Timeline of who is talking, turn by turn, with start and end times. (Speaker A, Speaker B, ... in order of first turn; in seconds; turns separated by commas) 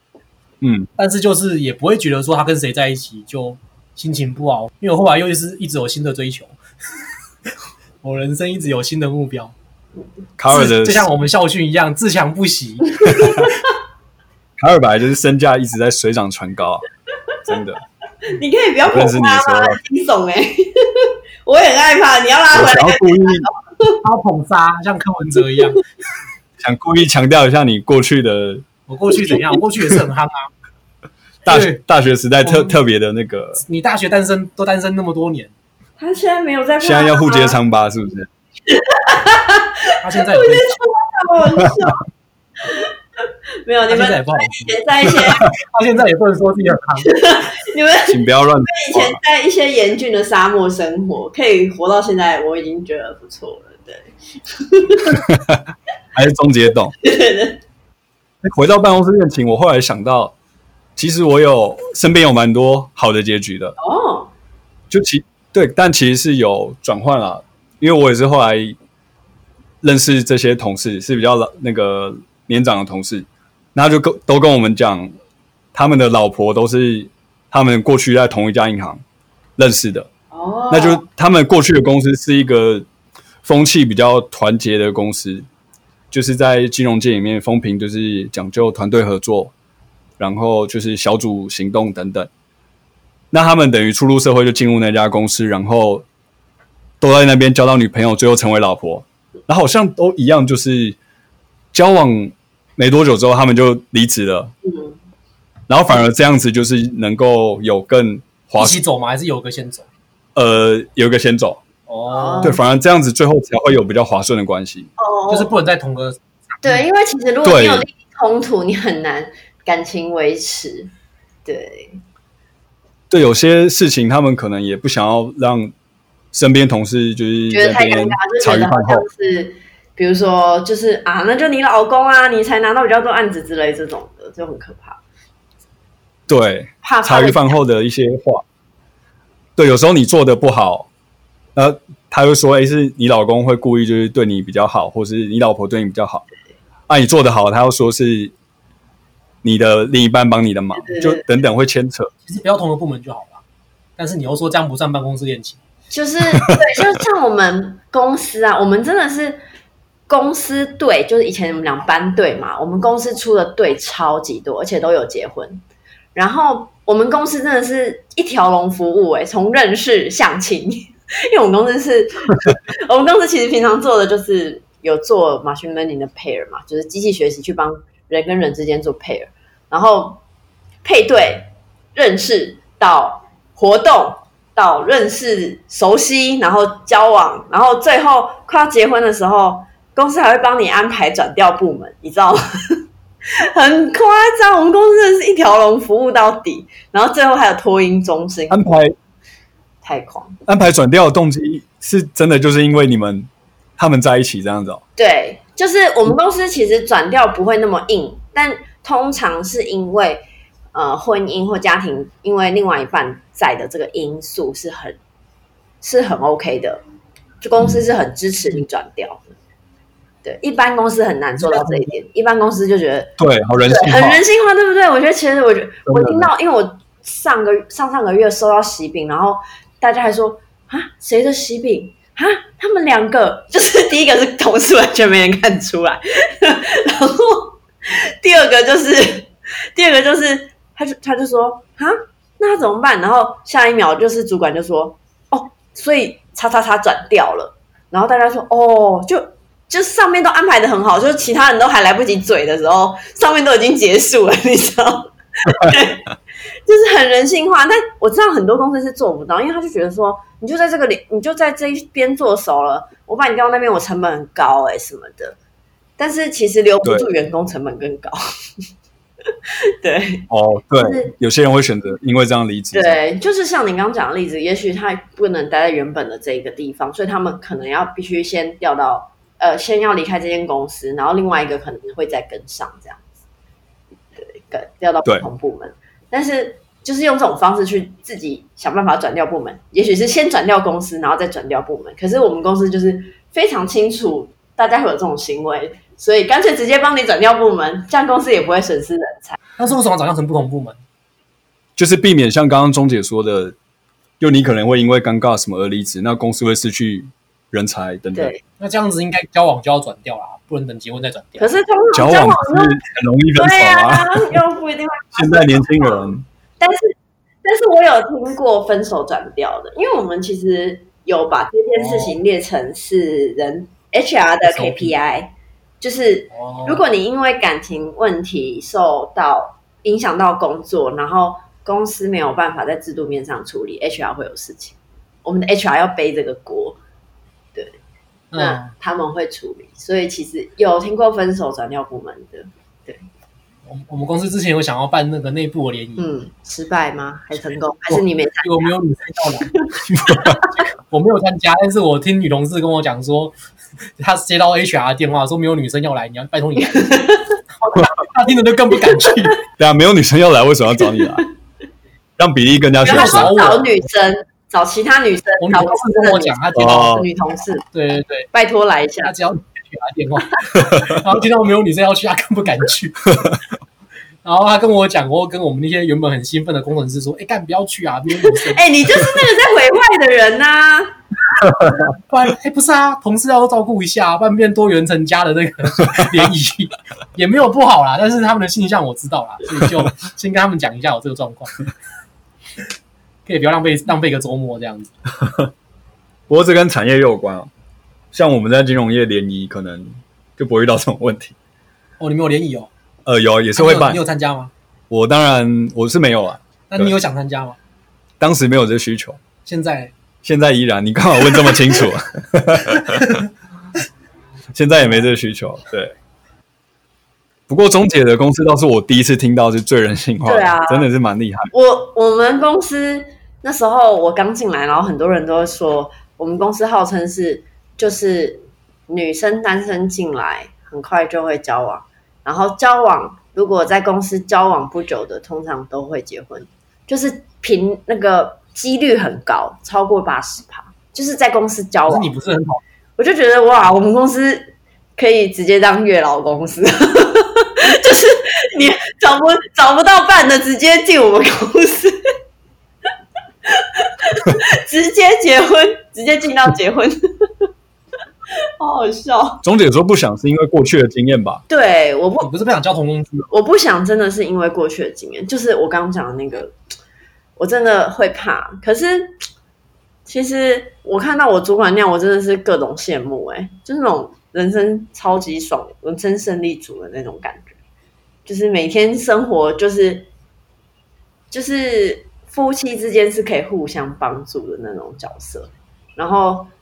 Speaker A: 0.6-0.9, Speaker B: 1.0-6.5, Speaker B: 8.0-9.5, Speaker A: 10.4-11.1, Speaker B: 10.5-13.2, Speaker A: 13.1-13.5, Speaker C: 13.1-13.5, Speaker A: 14.6-16.8, Speaker A: 17.4-17.8, Speaker C: 18.2-24.0, Speaker A: 18.9-19.8, Speaker A: 22.5-23.5, Speaker B: 24.0-25.8, Speaker A: 26.6-28.7, Speaker B: 28.9-30.5, Speaker A: 31.4-33.6, Speaker B: 31.5-31.8, Speaker B: 32.4-32.8, Speaker B: 33.6-35.5, Speaker C: 36.0-37.6, Speaker A: 36.8-38.3, Speaker C: 38.7-42.0, Speaker B: 40.0-40.8, Speaker C: 42.6-42.9, Speaker C: 43.6-45.5, Speaker B: 43.9-47.1, Speaker C: 47.0-55.2, Speaker A: 48.1-49.2, Speaker A: 55.1-56.9, Speaker C: 57.0-57.6, Speaker A: 58.4-60.3, Speaker A: 61.0-63.7, Speaker C: 63.8-64.3, Speaker A: 64.9-68.8, Speaker A: 69.8-75.1, Speaker A: 75.7-79.0, Speaker A: 79.6-80.1, Speaker C: 80.3-81.0, Speaker A: 80.7-82.8, Speaker A: 83.4-85.5, Speaker A: 86.1-89.5, Speaker A: 90.2-92.3, Speaker A: 93.3-96.0, Speaker A: 97.0-101.0, Speaker A: 101.7-104.5, Speaker C: 104.6-104.9, Speaker A: 105.7-108.8, Speaker B: 108.6-109.9, Speaker A: 110.3-111.6, Speaker B: 111.9-112.6, Speaker C: 112.1-112.6, Speaker A: 112.4-114.9, Speaker C: 115.0-115.5, Speaker B: 115.3-116.8, Speaker C: 116.6-120.9, Speaker A: 117.4-117.8, Speaker C: 121.5-122.0, Speaker A: 123.1-125.7, Speaker A: 126.3-129.1, Speaker C: 127.5-135.0, Speaker A: 136.3-138.4, Speaker C: 136.8-137.6, Speaker A: 139.6-140.9, Speaker A: 141.6-146.2, Speaker A: 146.9-148.3, Speaker A: 149.4-152.1, Speaker C: 150.8-151.3, Speaker B: 152.2-153.4, Speaker B: 154.0-155.6, Speaker C: 155.9-159.4, Speaker C: 160.1-165.6, Speaker C: 166.1-180.2, Speaker C: 180.8-192.8, Speaker C: 193.4-198.6, Speaker A: 198.5-198.9, Speaker C: 199.8-200.4, Speaker A: 200.4-204.8, Speaker C: 205.0-215.0, Speaker C: 215.8-216.8, Speaker C: 217.4-219.3, Speaker C: 220.2-223.1, Speaker A: 223.2-224.2, Speaker C: 223.7-256.1, Speaker A: 225.8-226.3, Speaker C: 256.6-265.4, Speaker C: 266.0-268.2, Speaker C: 269.8-270.3, Speaker A: 270.3-273.0, Speaker C: 270.8-271.1, Speaker C: 272.7-283.0, Speaker C: 284.2-299.4, Speaker B: 299.6-300.8, Speaker A: 301.8-303.6, Speaker A: 304.2-308.3, Speaker C: 308.1-308.4, Speaker B: 308.6-311.6, Speaker C: 311.4-312.8, Speaker A: 311.9-314.4, Speaker C: 313.4-316.9, Speaker A: 315.1-316.2, Speaker C: 317.4-336.8, Speaker B: 321.7-322.2, Speaker B: 324.4-324.9, Speaker B: 326.3-326.8, Speaker B: 338.3-338.7, Speaker C: 338.4-343.0, Speaker B: 343.6-346.1, Speaker C: 346.0-348.7, Speaker B: 347.9-349.6, Speaker A: 349.9-350.4, Speaker B: 350.9-353.3, Speaker B: 354.0-357.0, Speaker C: 356.6-357.4, Speaker B: 357.6-359.4, Speaker C: 358.9-359.1, Speaker A: 359.6-361.2, Speaker A: 362.2-363.4, Speaker C: 362.8-367.6, Speaker B: 362.8-363.7, Speaker B: 365.4-366.9, Speaker A: 366.5-367.1, Speaker B: 367.7-368.3, Speaker C: 368.3-369.1, Speaker B: 369.0-373.1, Speaker B: 374.2-378.6, Speaker C: 378.3-380.9, Speaker B: 382.1-391.6, Speaker B: 393.2-394.9, Speaker A: 395.2-395.5, Speaker A: 396.3-397.5, Speaker A: 398.1-401.3, Speaker B: 402.0-402.7, Speaker A: 403.1-404.0, Speaker B: 403.6-404.5, Speaker A: 404.9-406.9, Speaker B: 406.7-407.6, Speaker A: 408.2-409.2, Speaker B: 409.4-409.9, Speaker A: 410.2-413.1, Speaker B: 413.0-413.2, Speaker A: 414.5-415.9, Speaker A: 417.5-421.5, Speaker C: 420.2-420.9, Speaker C: 421.5-442.1, Speaker B: 441.9-442.6, Speaker C: 443.0-451.9, Speaker C: 453.5-457.0, Speaker C: 458.6-459.4, Speaker A: 459.4-461.4, Speaker C: 461.5-462.3, Speaker B: 462.2-463.3, Speaker C: 463.3-466.5, Speaker C: 467.4-469.2, Speaker C: 470.1-477.5, Speaker C: 478.2-480.1, Speaker C: 481.3-486.5